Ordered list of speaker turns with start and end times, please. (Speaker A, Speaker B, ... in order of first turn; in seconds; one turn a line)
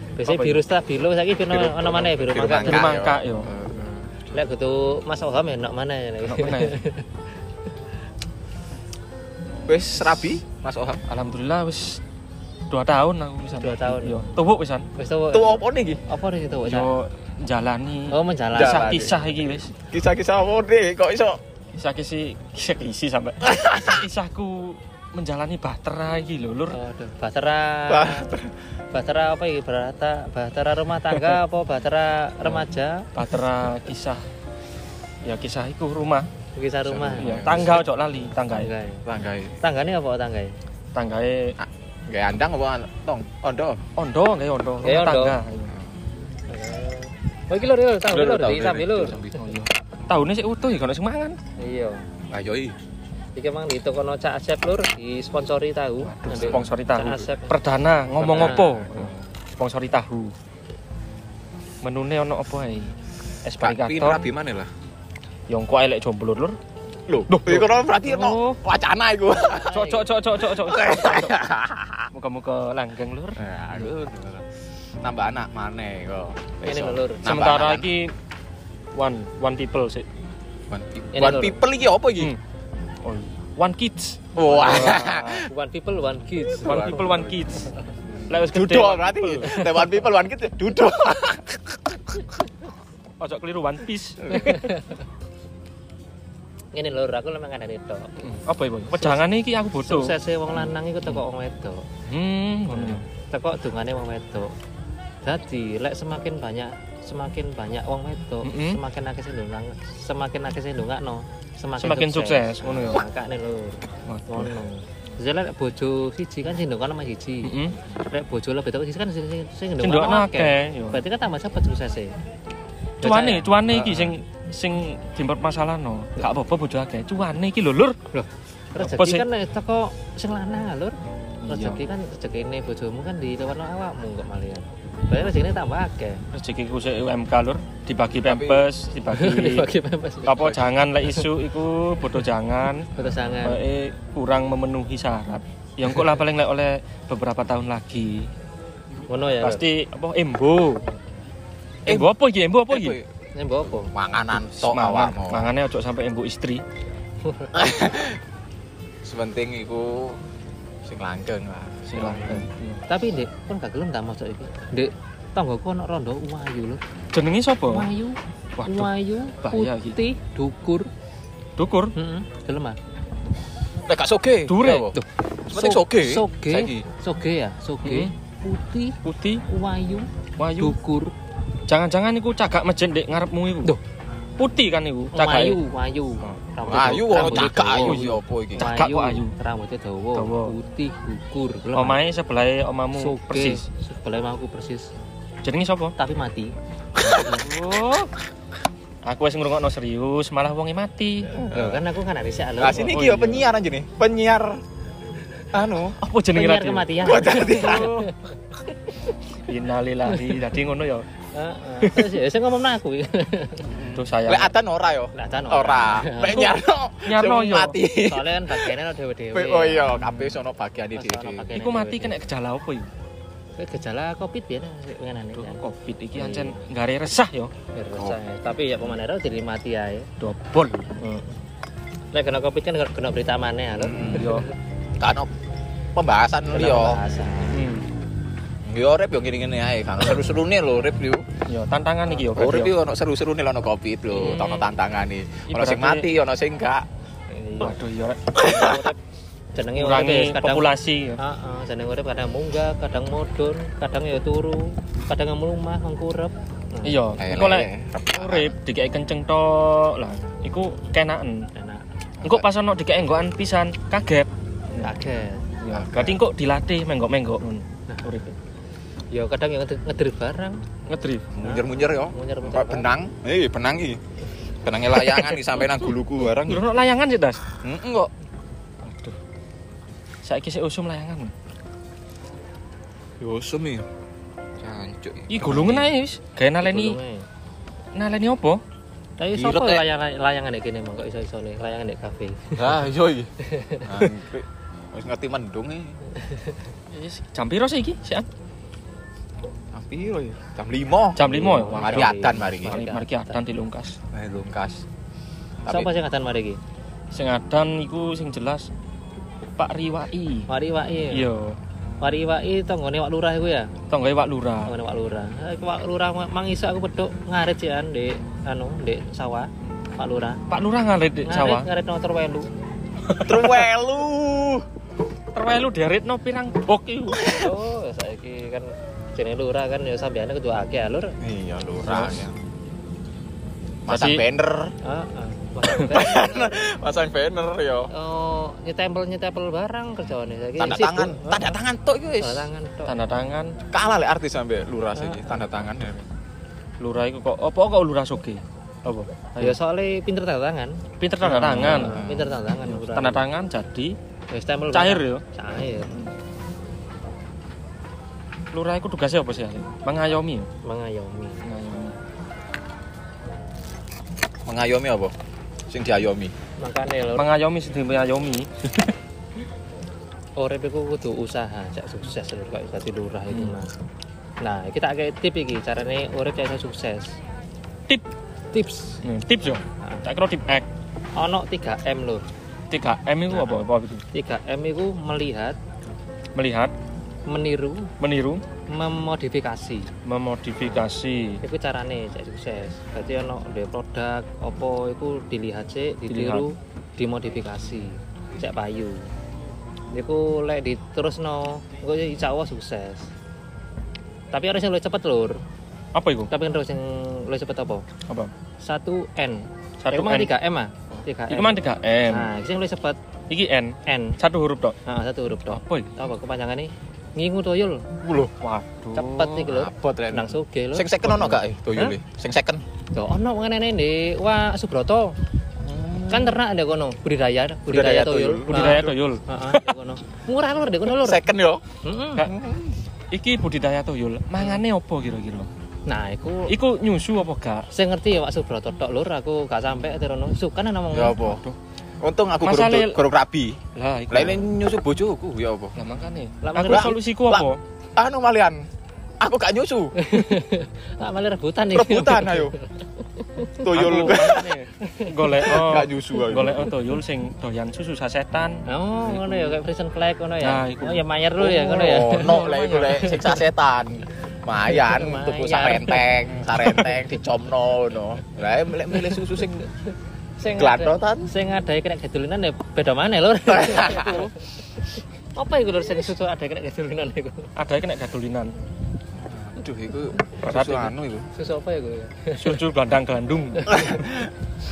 Speaker A: 0.2-3.0
Speaker B: 0.2-0.6
Speaker C: 1.5-4.1
Speaker B: 2.5-3.5
Speaker A: 4.3-7.0
Speaker B: 6.2-6.8
Speaker C: 9.7-11.0
Speaker B: 11.1-12.0
Speaker B: 12.7-14.9
Speaker A: 13.5-14.3
Speaker A: 14.9-16.9
Speaker C: 15.3-16.0
Speaker B: 16.6-19.7
Speaker A: 18.1-18.9
Speaker C: 18.5-21.4
Speaker B: 21.7-26.8
Speaker C: 23.4-24.1
Speaker A: 26.7-28.3
Speaker C: 27.9-28.5
Speaker A: 28.9-33.1
Speaker B: 33.1-34.2
Speaker B: 35.2-36.3
Speaker A: 36.5-37.9
Speaker C: 36.9-37.9
Speaker B: 37.2-38.7
Speaker A: 38.4-39.0
Speaker C: 39.0-39.6
Speaker A: 39.6-40.5
Speaker B: 40.9-41.6
Speaker C: 41.6-43.8
Speaker B: 44.0-45.7
Speaker A: 44.8-45.4
Speaker A: 46.5-49.3
Speaker C: 48.1-49.4
Speaker B: 49.3-51.4
Speaker A: 51.6-52.0
Speaker C: 52.3-52.8
Speaker A: 53.4-57.5
Speaker B: 56.0-60.3
Speaker C: 56.2-56.7
Speaker C: 58.2-59.2
Speaker A: 58.3-58.6
Speaker B: 61.8-64.3
Speaker C: 63.6-64.7
Speaker B: 65.5-66.5
Speaker C: 67.1-69.8
Speaker B: 67.3-68.6
Speaker A: 69.5-70.1
Speaker B: 69.7-71.3
Speaker C: 70.4-72.1
Speaker B: 72.1-73.4
Speaker C: 73.4-74.5
Speaker C: 75.0-77.9
Speaker A: 76.6-77.2
Speaker B: 77.2-78.1
Speaker B: 78.9-80.1
Speaker C: 80.7-82.3
Speaker A: 81.1-81.5
Speaker B: 81.2-81.5
Speaker B: 83.0-85.5
Speaker C: 84.3-85.5
Speaker A: 84.5-87.0
Speaker C: 86.5-87.4
Speaker B: 86.6-87.7
Speaker C: 88.2-92.2
Speaker B: 88.3-89.6
Speaker B: 93.2-94.7
Speaker C: 94.2-94.6
Speaker A: 94.3-94.9
Speaker A: 96.7-98.2
Speaker B: 98.2-101.2
Speaker A: 98.9-99.2
Speaker A: 99.8-101.8
Speaker B: 102.1-103.0
Speaker A: 102.7-104.5
Speaker A: 105.2-117.5
Speaker B: 108.4-108.8
Speaker B: 111.8-113.0
Speaker B: 114.0-114.5
Speaker B: 117.4-117.8
Speaker A: 118.1-122.1
Speaker B: 119.8-121.0
Speaker A: 123.0-123.5
Speaker B: 123.0-128.0
Speaker C: 123.7-124.1
Speaker A: 128.1-136.2
Speaker B: 128.8-129.2
Speaker B: 131.4-131.8
Speaker B: 136.3-139.7
Speaker C: 138.2-138.7
Speaker A: 139.1-140.5
Speaker B: 140.2-142.9
Speaker C: 142.9-143.5
Speaker A: 142.9-143.6
Speaker B: 143.4-148.3
Speaker A: 149.1-149.6
Speaker B: 149.4-150.8
Speaker C: 151.8-152.1
Speaker B: 151.8-153.0
Speaker C: 152.7-153.1
Speaker A: 153.3-153.9
Speaker C: 153.7-155.5
Speaker B: 154.3-156.6
Speaker C: 157.5-158.2
Speaker C: 159.0-160.2
Speaker C: 160.8-162.4
Speaker B: 161.9-162.8
Speaker A: 162.2-166.8
Speaker B: 167.1-167.9
Speaker A: 167.6-170.9
Speaker B: 168.6-170.0
Speaker B: 171.6-171.9
Speaker A: 171.9-172.8
Speaker C: 173.9-176.8
Speaker B: 174.5-174.9
Speaker A: 174.9-181.1
Speaker B: 177.8-178.1
Speaker B: 179.0-179.4
Speaker B: 180.4-180.8
Speaker B: 181.7-183.7
Speaker B: 184.4-185.6
Speaker A: 185.1-188.0
Speaker C: 186.2-188.7
Speaker B: 187.1-189.3
Speaker A: 188.6-192.0
Speaker B: 190.2-190.5
Speaker B: 191.7-193.6
Speaker A: 192.9-194.9
Speaker B: 195.4-195.9
Speaker A: 196.0-196.5
Speaker C: 197.0-197.4
Speaker B: 197.3-198.1
Speaker B: 199.0-201.3
Speaker C: 201.3-201.8
Speaker A: 201.3-203.0
Speaker C: 202.6-204.6
Speaker B: 202.8-203.4
Speaker C: 205.5-206.0
Speaker B: 206.0-208.1
Speaker A: 206.3-208.3
Speaker C: 207.0-207.9
Speaker B: 209.4-211.1
Speaker A: 210.1-210.4
Speaker A: 211.3-213.7
Speaker C: 213.6-218.7
Speaker B: 213.9-214.5
Speaker A: 215.1-216.5
Speaker B: 217.0-217.8
Speaker A: 218.0-220.1
Speaker C: 219.3-221.5
Speaker A: 220.9-222.2
Speaker B: 221.5-222.9
Speaker A: 223.6-225.6
Speaker B: 225.3-227.5
Speaker A: 226.2-226.6
Speaker A: 227.7-230.1
Speaker B: 230.2-230.9
Speaker A: 231.0-231.4
Speaker A: 232.1-234.5
Speaker C: 233.8-234.3
Speaker B: 234.1-234.5
Speaker C: 235.0-235.3
Speaker C: 235.9-237.0
Speaker A: 236.5-237.7
Speaker B: 237.5-237.8
Speaker C: 238.6-241.3
Speaker B: 241.5-242.7
Speaker C: 242.3-246.8
Speaker B: 244.1-244.7
Speaker B: 245.5-246.1
Speaker A: 247.3-247.7
Speaker B: 247.6-248.5
Speaker C: 248.3-248.8
Speaker A: 248.4-248.9
Speaker A: 249.5-250.7
Speaker B: 249.7-251.2
Speaker A: 251.2-257.0
Speaker B: 256.8-261.5
Speaker C: 257.2-258.5
Speaker A: 261.5-261.8
Speaker C: 262.2-262.4
Speaker B: 262.2-264.9
Speaker A: 264.8-265.4
Speaker B: 265.6-268.4
Speaker C: 265.7-266.2
Speaker A: 267.9-268.1
Speaker A: 269.1-270.6
Speaker B: 270.9-271.3
Speaker C: 271.3-274.0
Speaker A: 271.4-272.9
Speaker C: 274.6-276.6
Speaker B: 275.1-275.5
Speaker B: 276.5-277.4
Speaker C: 277.6-278.1
Speaker B: 278.8-279.1
Speaker B: 280.2-281.3
Speaker C: 283.2-283.9
Speaker C: 284.6-285.9
Speaker B: 285.3-287.0
Speaker A: 286.6-287.2
Speaker B: 287.9-288.6
Speaker A: 289.2-292.7
Speaker C: 289.3-289.8
Speaker C: 292.5-293.3
Speaker A: 293.4-293.9
Speaker C: 293.8-295.9
Speaker A: 296.1-296.6
Speaker B: 296.9-298.3
Speaker C: 299.7-302.8
Speaker B: 301.1-304.0
Speaker A: 301.2-303.4
Speaker C: 304.1-304.8
Speaker A: 305.6-306.6
Speaker B: 307.1-308.7
Speaker B: 309.6-310.5
Speaker A: 310.5-311.3
Speaker B: 311.1-311.6
Speaker A: 312.0-313.7
Speaker B: 313.9-314.7
Speaker A: 314.6-320.4
Speaker B: 320.5-321.7
Speaker A: 321.2-322.5
Speaker B: 323.1-323.6
Speaker C: 323.2-324.6
Speaker B: 325.3-327.2
Speaker C: 327.1-327.5
Speaker A: 327.3-331.1
Speaker C: 331.2-332.4
Speaker B: 331.8-332.2
Speaker B: 333.9-334.2
Speaker C: 333.9-334.7
Speaker A: 334.8-336.7
Speaker C: 335.7-337.9
Speaker A: 337.9-341.6
Speaker C: 340.6-342.5
Speaker A: 342.2-342.9
Speaker B: 342.9-343.6
Speaker C: 343.7-346.1
Speaker A: 344.9-345.4
Speaker B: 346.8-349.6
Speaker A: 349.4-353.2
Speaker B: 351.0-352.0
Speaker C: 351.7-352.3
Speaker B: 352.6-353.9
Speaker A: 354.3-356.0
Speaker B: 354.7-355.2
Speaker B: 358.5-360.5
Speaker A: 360.6-361.4
Speaker B: 361.4-361.9
Speaker C: 364.4-365.1
Speaker C: 365.7-366.3
Speaker A: 366.6-367.3
Speaker B: 367.1-368.9
Speaker A: 370.4-373.7
Speaker A: 374.4-377.1
Speaker A: 378.5-379.0
Speaker B: 379.0-380.7
Speaker A: 381.1-382.2
Speaker B: 382.7-384.0
Speaker A: 383.3-385.6
Speaker B: 386.3-386.7
Speaker A: 387.3-387.9
Speaker B: 388.0-388.4
Speaker A: 388.7-389.9
Speaker B: 390.0-391.4
Speaker A: 391.4-399.1
Speaker B: 396.1-396.4
Speaker A: 399.9-403.1
Speaker A: 404.3-405.4
Speaker B: 405.9-406.3
Speaker A: 406.3-407.9
Speaker A: 408.6-411.6
Speaker B: 409.8-410.3
Speaker B: 411.3-412.3
Speaker A: 412.1-413.0
Speaker B: 413.3-414.8
Speaker A: 413.9-414.2
Speaker A: 414.9-417.9
Speaker B: 415.5-415.9
Speaker C: 418.0-418.3
Speaker B: 418.4-419.5
Speaker A: 418.9-421.9
Speaker C: 419.5-422.6
Speaker A: 422.9-425.1
Speaker C: 425.6-426.4
Speaker A: 426.1-431.2
Speaker C: 427.7-429.0
Speaker B: 428.5-429.2
Speaker C: 430.9-431.6
Speaker A: 431.8-432.3
Speaker C: 432.2-432.8
Speaker B: 433.1-435.5
Speaker A: 435.9-436.5
Speaker B: 436.5-437.7
Speaker A: 437.7-441.2
Speaker C: 440.9-441.4
Speaker C: 442.0-445.7
Speaker B: 442.4-443.0
Speaker B: 443.7-444.5
Speaker B: 445.8-447.6
Speaker A: 446.4-447.0
Speaker C: 446.6-448.6
Speaker C: 449.2-449.9
Speaker A: 449.9-455.5
Speaker C: 451.7-452.5
Speaker C: 453.6-454.5
Speaker B: 453.7-459.6
Speaker C: 455.5-456.7
Speaker A: 458.7-463.4
Speaker B: 460.4-461.0
Speaker C: 461.4-469.7
Speaker A: 464.7-466.1
Speaker B: 466.5-466.9
Speaker A: 470.4-477.5
Speaker C: 470.5-471.3
Speaker C: 473.5-474.3
Speaker B: 477.6-478.5
Speaker C: 479.2-481.3
Speaker B: 480.4-480.9
Speaker A: 481.3-482.6
Speaker B: 482.4-484.0
Speaker A: 483.7-484.0
Speaker C: 483.7-484.3